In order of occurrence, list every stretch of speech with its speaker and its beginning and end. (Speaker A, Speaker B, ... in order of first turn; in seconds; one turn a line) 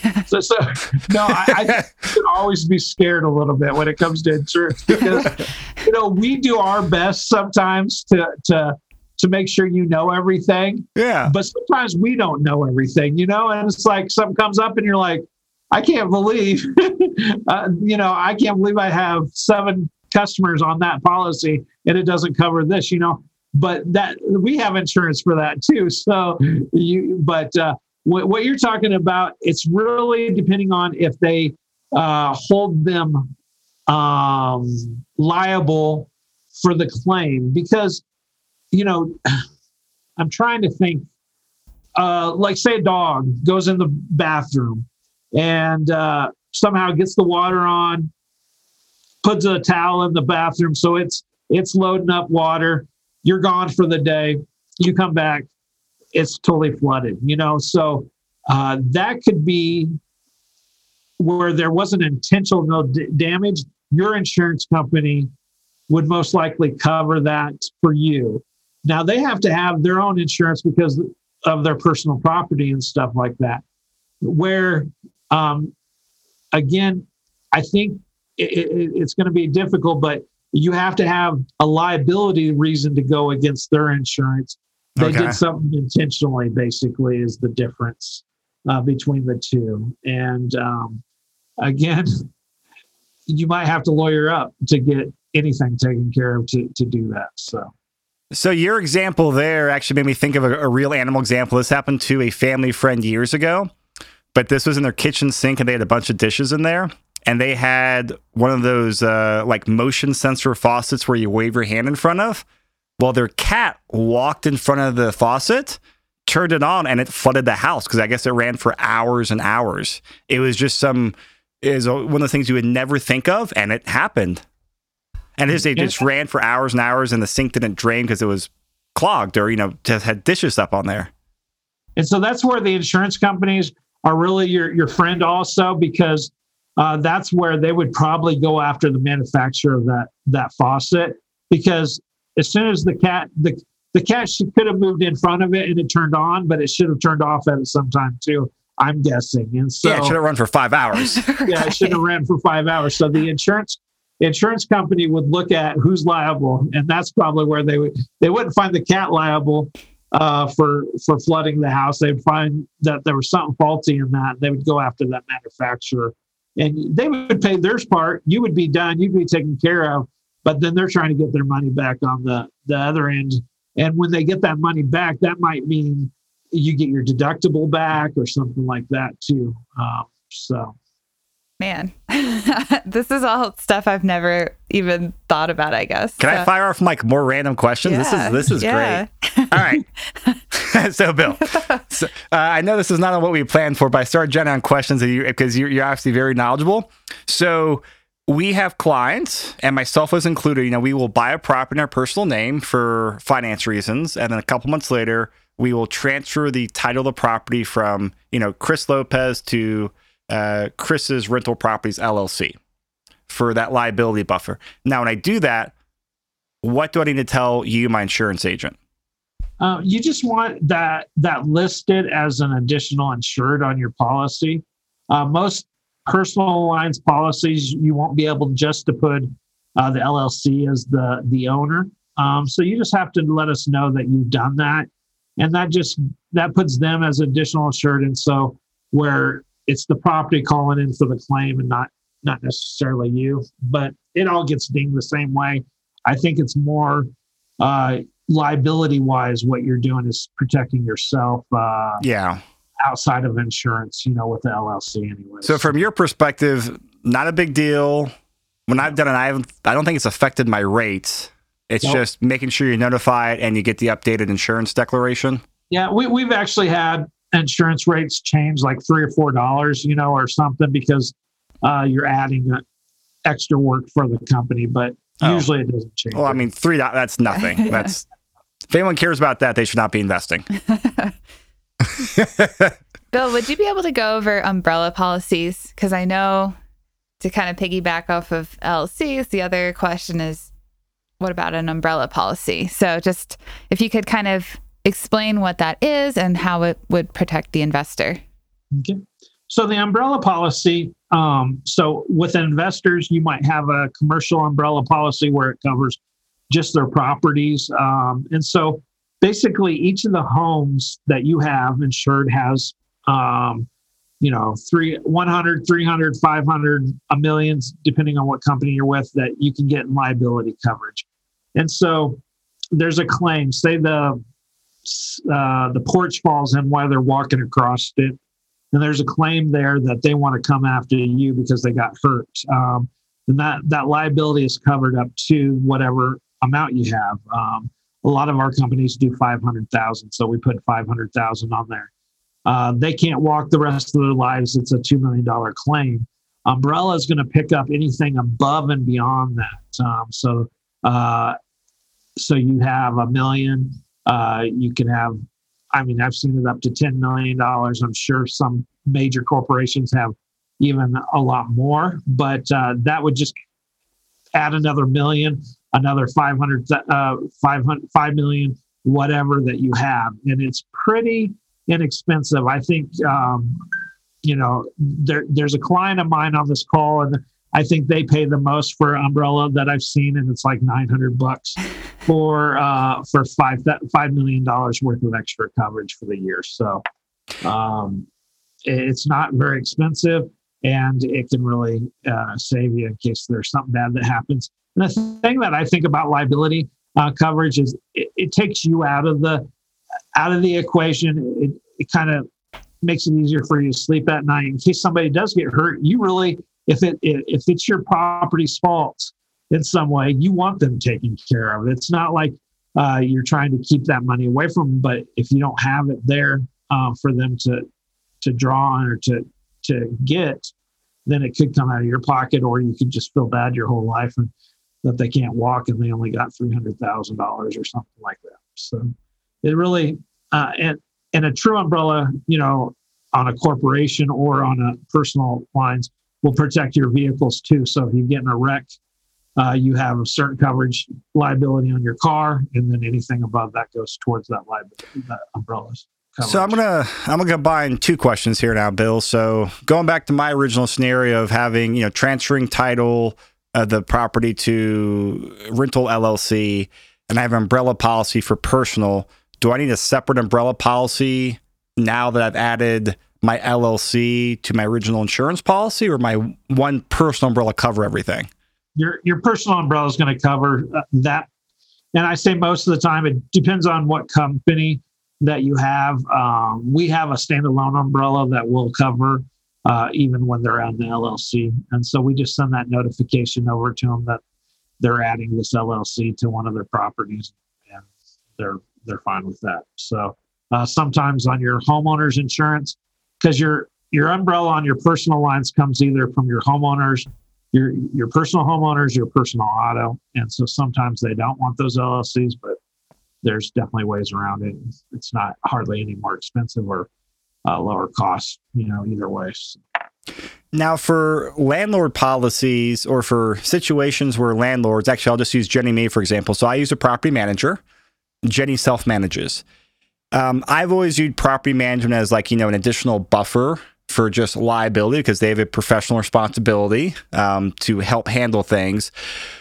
Speaker A: 0.3-33.3
Speaker B: 1.3-1.8
Speaker B: 10.9-11.3
Speaker A: 33.9-38.0
Speaker A: 38.7-39.4
Speaker A: 40.2-41.0
Speaker A: 42.0-48.1
Speaker A: 49.2-55.5
Speaker A: 56.1-59.9
Speaker A: 61.2-65.3
Speaker A: 65.9-73.6
Speaker A: 74.2-75.7
Speaker A: 76.5-91.0
Speaker B: 85.0-85.4
Speaker A: 91.6-92.3
Speaker A: 93.3-97.7
Speaker B: 98.3-103.7
Speaker B: 104.3-112.4
Speaker B: 113.0-124.4
Speaker B: 125.4-131.1
Speaker A: 131.9-150.2
Speaker B: 149.8-151.2
Speaker C: 151.0-152.0
Speaker A: 151.4-180.8
Speaker C: 181.6-186.5
Speaker B: 186.2-189.8
Speaker C: 187.8-190.4
Speaker B: 190.5-212.6
Speaker C: 191.5-191.8
Speaker B: 213.3-215.7
Speaker B: 216.6-218.8
Speaker A: 219.6-234.9
Speaker A: 235.4-247.1
Speaker A: 247.6-252.0
Speaker B: 252.0-252.4
Speaker A: 252.8-255.7
Speaker B: 255.4-258.1
Speaker B: 258.7-265.4
Speaker A: 265.7-272.6
Speaker A: 273.2-276.4
Speaker B: 275.2-275.5
Speaker B: 276.1-278.0
Speaker B: 278.7-280.4
Speaker C: 280.7-281.1
Speaker B: 282.0-282.7
Speaker C: 283.1-286.6
Speaker C: 287.2-290.5
Speaker C: 291.2-298.2
Speaker A: 298.7-306.0
Speaker A: 306.5-313.7
Speaker A: 314.2-322.2
Speaker A: 322.7-324.2
Speaker A: 324.8-328.2
Speaker A: 328.7-341.9
Speaker A: 342.4-351.4
Speaker A: 352.2-355.2
Speaker A: 355.7-363.3
Speaker A: 364.3-373.6
Speaker A: 374.2-386.8
Speaker A: 387.4-388.1
Speaker A: 388.6-399.4
Speaker A: 400.1-402.2
Speaker A: 402.8-417.6
Speaker A: 418.2-420.5
Speaker A: 421.1-424.3
Speaker A: 424.8-428.9
Speaker A: 429.4-438.7
Speaker A: 439.4-446.6
Speaker B: 446.2-468.3
Speaker A: 468.8-471.3
Speaker A: 471.9-484.2
Speaker A: 484.8-487.8
Speaker A: 488.4-502.6
Speaker A: 503.2-506.9
Speaker A: 507.4-509.6
Speaker B: 510.5-517.6
Speaker B: 518.2-519.4
Speaker B: 520.1-528.9